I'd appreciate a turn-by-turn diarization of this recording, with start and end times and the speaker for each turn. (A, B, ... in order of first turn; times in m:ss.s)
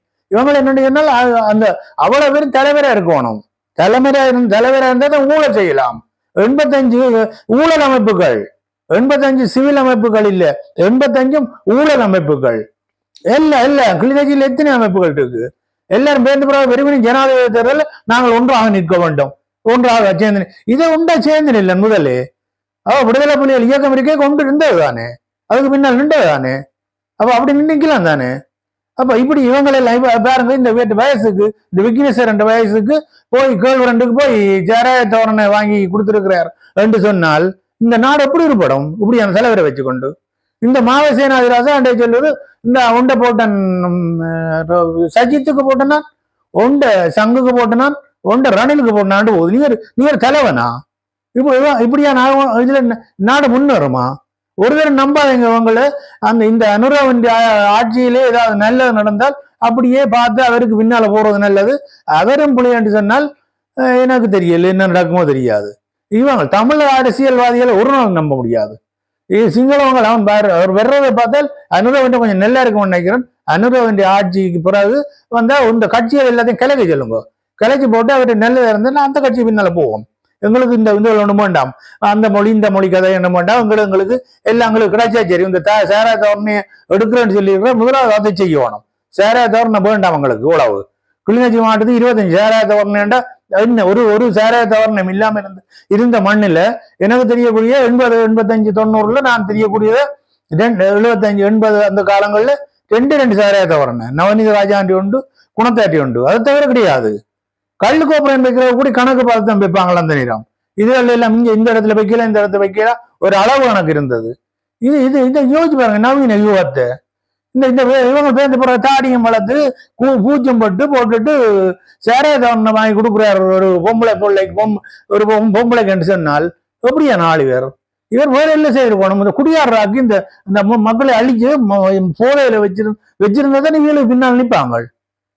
0:00.3-0:12.6 A
0:13.3-0:22.2 A
0:22.9-0:26.6 A
0:27.2-0:28.4 A
0:29.0-0:40.1 A
0:40.6-0:46.0 A
0:46.6-0:50.8 A
0:51.4-1:03.3 A
1:03.8-1:08.8 A
1:09.3-1:47.1 A
1:47.8-1:54.3 A
1:54.8-1:56.9 A
1:57.6-2:14.9 A